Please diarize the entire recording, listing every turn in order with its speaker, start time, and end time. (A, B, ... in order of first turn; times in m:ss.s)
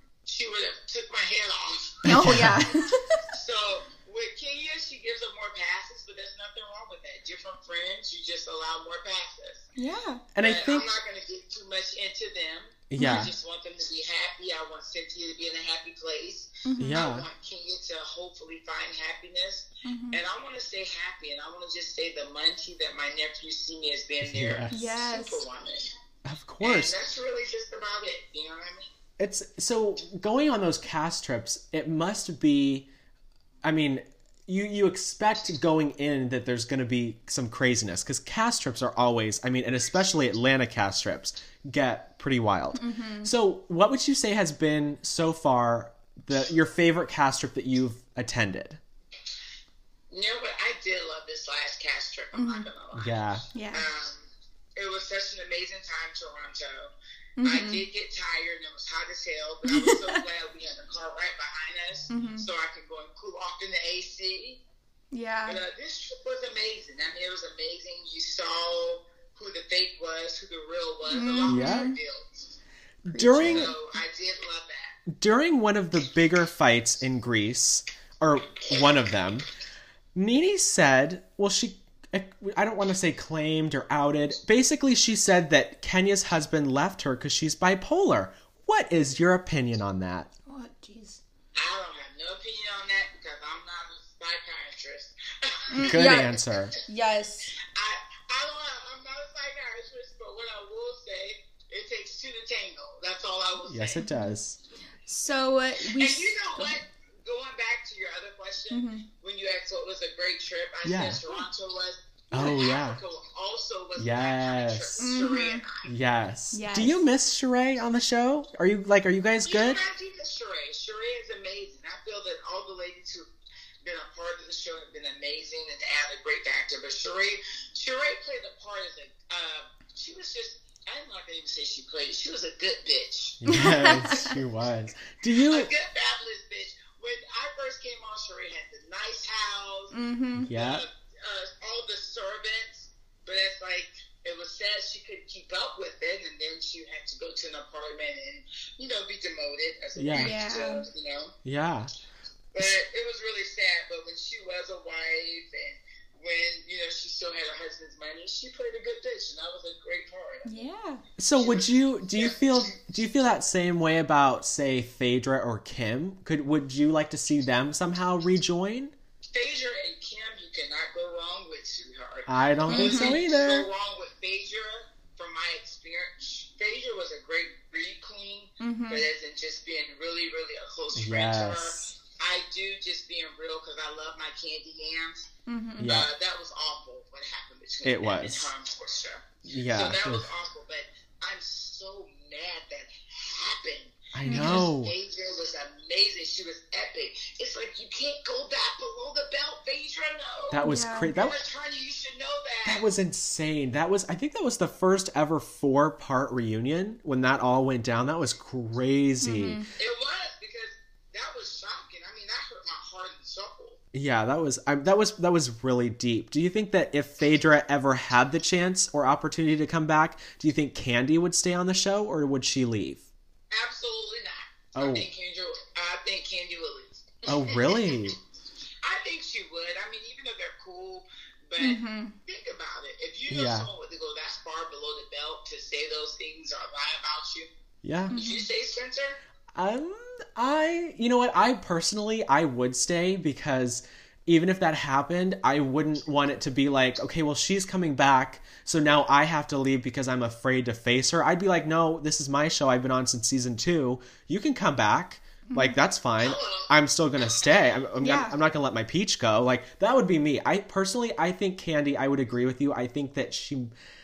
0:00.3-0:02.6 A
0:02.0-0:02.7 B
0:02.1-0:03.0 C
0:03.3-0:09.7 A
0:09.8-0:10.2 C
0:10.3-0:10.9 B
0:10.4-0:25.9 A
0:12.9-0:13.3 B
0:13.0-0:13.3 C
0:16.6-0:17.0 C
0:16.8-0:17.3 B
0:19.8-0:20.2 C
0:24.2-0:24.7 B
0:24.7-0:25.4 C
0:26.2-0:27.0 B
0:26.6-0:28.9 A
0:29.2-0:32.9 B
0:33.6-0:48.8 B
0:42.8-0:43.3 C
0:50.1-0:53.2 A
0:52.3-0:52.7 C
0:53.0-0:53.4 B
0:53.5-0:53.9 C
0:53.7-0:56.9 A
0:57.4-0:57.8 C
0:57.4-1:04.6 A
0:59.6-1:00.2 C
1:02.1-1:02.5 C
1:05.1-1:05.6 C
1:05.5-1:12.6 A
1:11.1-1:12.0 C
1:11.5-1:11.9 B
1:13.0-1:13.7 B
1:13.1-1:13.7 C
1:13.4-1:15.0 A
1:15.1-1:19.5 B
1:20.2-1:30.3 B
1:30.5-1:31.2 C
1:31.6-1:36.6 A
1:35.7-1:37.5 C
1:35.8-1:36.7 B
1:37.7-1:44.0 A
1:43.7-1:44.6 B
1:44.0-1:44.4 C
1:45.1-1:46.8 C
1:45.9-1:55.9 A
1:48.7-1:49.0 C
1:50.8-1:51.2 B
1:52.3-1:53.0 B
1:54.0-1:55.0 B
1:55.0-1:55.6 C
1:55.8-1:59.8 B
1:56.5-1:57.0 C
1:59.4-2:03.3 A
2:03.8-2:14.3 A
2:13.4-2:15.7 B
2:13.5-2:14.3 C
2:15.5-2:20.0 A
2:19.9-2:20.5 C
2:20.4-2:20.8 B
2:20.5-2:31.3 A
2:30.0-2:30.3 B
2:30.1-2:30.8 C
2:31.4-2:31.9 B
2:32.5-2:40.6 A
2:40.4-2:41.0 C
2:41.2-2:48.9 B
2:41.4-2:42.8 A
2:49.3-3:05.3 A
2:52.3-2:53.7 B
2:52.7-2:53.2 C
2:58.6-2:59.0 C
3:01.0-3:01.8 B
3:05.5-3:05.9 C
3:05.8-3:06.1 B
3:05.8-3:22.9 A
3:07.8-3:08.5 B
3:09.5-3:10.3 B
3:14.1-3:14.9 B
3:14.3-3:14.7 C
3:20.5-3:21.4 B
3:20.6-3:21.1 C
3:22.6-3:29.6 B
3:29.2-3:29.7 C
3:29.8-3:33.8 A
3:33.9-3:43.1 B
3:43.5-3:48.2 A
3:44.8-3:45.1 B
3:47.3-3:48.2 B
3:48.8-3:57.5 A
3:51.6-3:52.2 C
3:53.3-3:53.7 B
3:57.8-3:58.2 B
3:58.1-3:58.4 C
3:58.1-3:59.2 A
3:59.6-4:23.7 B
4:15.5-4:15.8 C
4:16.2-4:17.5 A
4:18.0-4:18.4 C